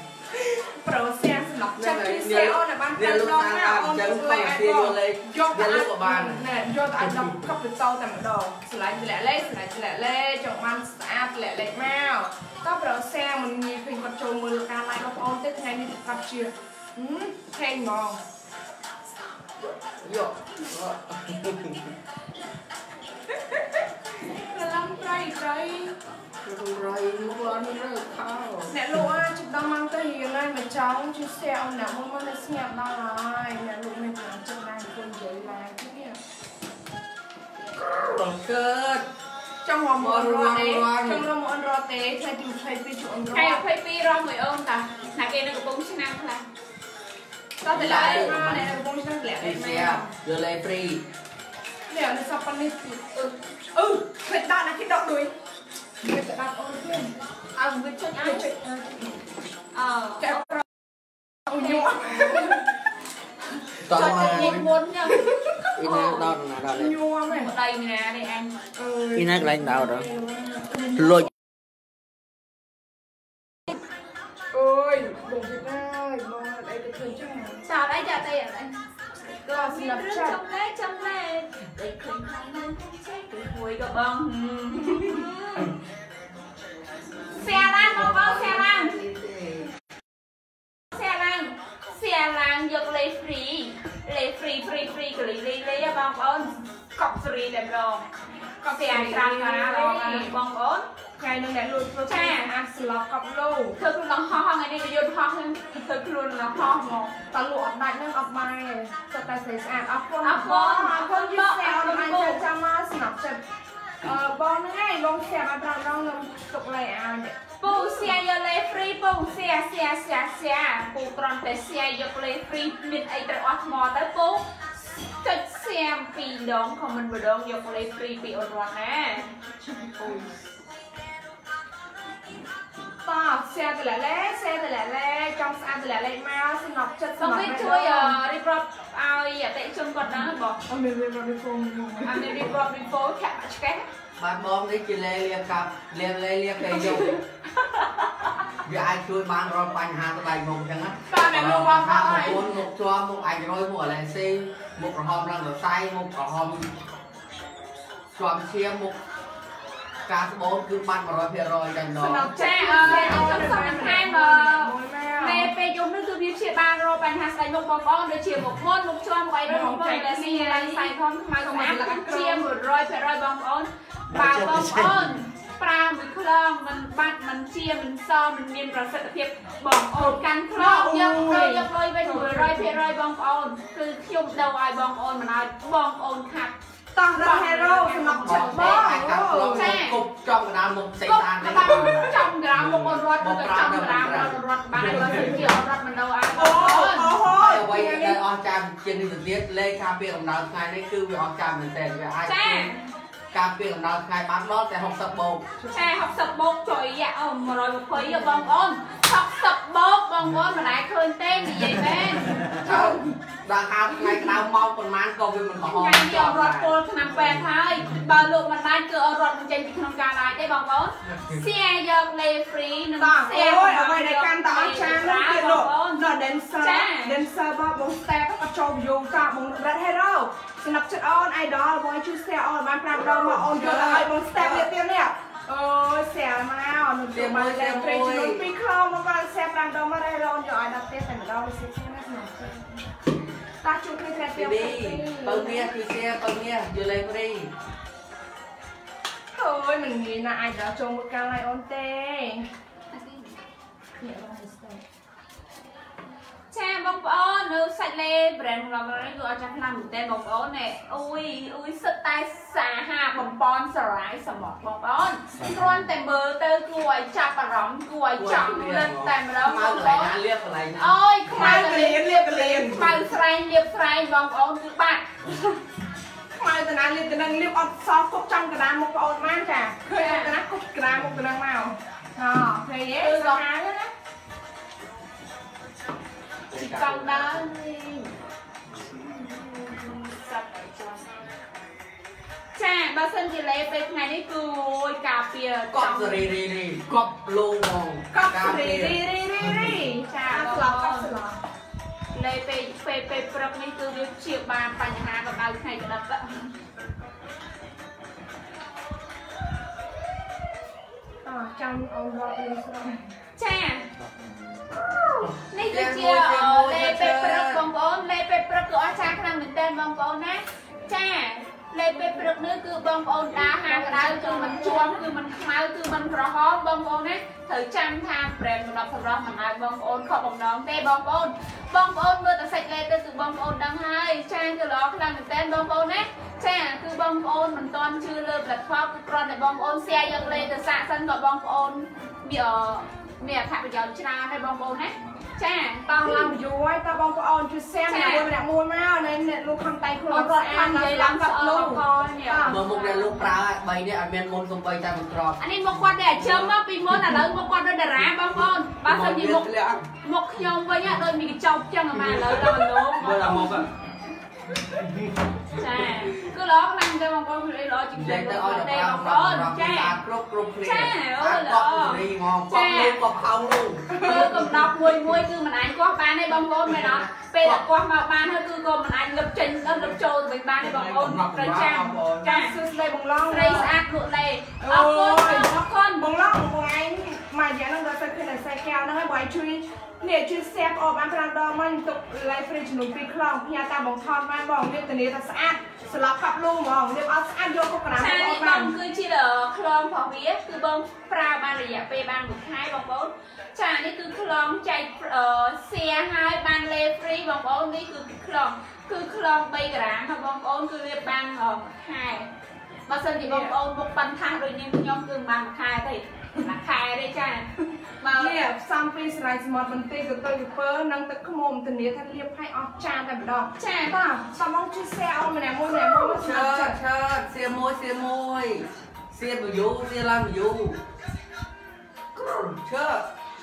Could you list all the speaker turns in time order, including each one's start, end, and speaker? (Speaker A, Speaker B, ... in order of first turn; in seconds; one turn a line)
Speaker A: 0.3-18.2
Speaker B: 1.8-6.4
Speaker B: 20.0-21.9
Speaker A: 23.4-26.0
Speaker B: 26.4-28.8
Speaker A: 28.7-36.2
Speaker B: 37.8-39.1
Speaker A: 39.6-43.6
Speaker B: 40.0-41.3
Speaker C: 43.3-46.5
Speaker A: 47.6-50.1
Speaker B: 47.7-48.7
Speaker C: 47.8-48.3
Speaker B: 49.4-51.0
Speaker A: 51.9-53.1
Speaker A: 53.7-55.4
Speaker A: 56.0-57.2
Speaker C: 57.6-58.5
Speaker A: 58.1-59.2
Speaker C: 59.7-60.5
Speaker A: 60.2-62.7
Speaker C: 61.6-61.9
Speaker B: 63.8-64.7
Speaker A: 63.9-64.6
Speaker C: 63.9-66.3
Speaker A: 65.1-65.6
Speaker B: 65.8-67.0
Speaker A: 66.7-67.5
Speaker C: 67.3-68.6
Speaker A: 68.8-71.3
Speaker B: 69.2-70.1
Speaker B: 71.0-71.3
Speaker A: 74.5-77.7
Speaker C: 77.7-85.7
Speaker A: 79.5-80.4
Speaker A: 85.0-85.4
Speaker B: 87.3-89.7
Speaker C: 87.3-89.0
Speaker C: 90.9-98.1
Speaker A: 98.6-100.3
Speaker C: 98.7-100.9
Speaker A: 101.2-103.8
Speaker C: 102.1-102.5
Speaker C: 103.8-107.2
Speaker A: 107.3-113.4
Speaker C: 110.2-112.4
Speaker A: 114.0-118.1
Speaker C: 117.6-129.3
Speaker A: 129.9-130.2
Speaker A: 133.0-138.2
Speaker C: 137.2-140.6
Speaker A: 140.7-142.4
Speaker C: 142.0-143.9
Speaker B: 144.2-147.2
Speaker C: 146.8-148.3
Speaker B: 148.6-156.7
Speaker C: 151.1-152.5
Speaker B: 158.2-159.0
Speaker B: 160.1-162.3
Speaker A: 162.0-165.5
Speaker C: 162.3-186.6
Speaker A: 169.5-172.6
Speaker B: 174.2-174.9
Speaker A: 179.9-182.8
Speaker A: 186.9-189.8
Speaker C: 187.1-190.0
Speaker B: 188.3-195.6
Speaker C: 191.1-197.1
Speaker A: 196.3-198.2
Speaker B: 197.3-202.7
Speaker C: 202.2-202.9
Speaker B: 203.3-205.6
Speaker C: 205.7-212.9
Speaker B: 212.6-216.8
Speaker A: 212.7-213.0
Speaker C: 215.7-226.0
Speaker A: 223.0-242.9
Speaker C: 226.6-227.2
Speaker B: 233.4-234.7
Speaker B: 237.1-238.4
Speaker A: 243.6-245.7
Speaker B: 244.3-247.5
Speaker A: 249.3-252.5
Speaker C: 252.9-253.4
Speaker A: 254.0-254.8
Speaker C: 256.5-270.2
Speaker B: 268.2-271.0
Speaker C: 270.8-275.4
Speaker A: 271.3-273.1
Speaker A: 276.4-283.9
Speaker C: 279.9-280.3
Speaker C: 283.0-283.4
Speaker B: 286.5-287.5
Speaker C: 286.5-288.1
Speaker C: 288.9-291.3
Speaker C: 292.6-296.3
Speaker B: 295.7-299.7
Speaker A: 298.1-301.4
Speaker C: 300.1-301.1
Speaker C: 302.1-306.5
Speaker A: 311.2-313.1
Speaker C: 313.4-313.9
Speaker B: 315.1-317.6
Speaker C: 315.5-346.4
Speaker A: 323.4-325.0
Speaker A: 345.9-352.6
Speaker C: 347.9-348.3
Speaker C: 350.1-353.3
Speaker B: 352.5-355.4
Speaker C: 355.4-359.5
Speaker B: 356.2-356.5
Speaker B: 358.8-359.9
Speaker C: 360.0-363.6
Speaker B: 362.1-363.7
Speaker B: 364.7-365.1
Speaker C: 365.5-370.0
Speaker B: 367.9-374.9
Speaker C: 370.6-373.0
Speaker A: 373.9-374.4
Speaker C: 374.0-382.6
Speaker B: 376.7-377.6
Speaker B: 380.6-382.3
Speaker A: 382.2-383.8
Speaker C: 383.3-386.1
Speaker A: 384.6-398.7
Speaker C: 398.0-412.3
Speaker C: 412.9-418.4
Speaker A: 413.2-413.5
Speaker A: 418.1-426.8
Speaker C: 423.6-424.0
Speaker B: 425.9-430.8
Speaker B: 432.2-433.1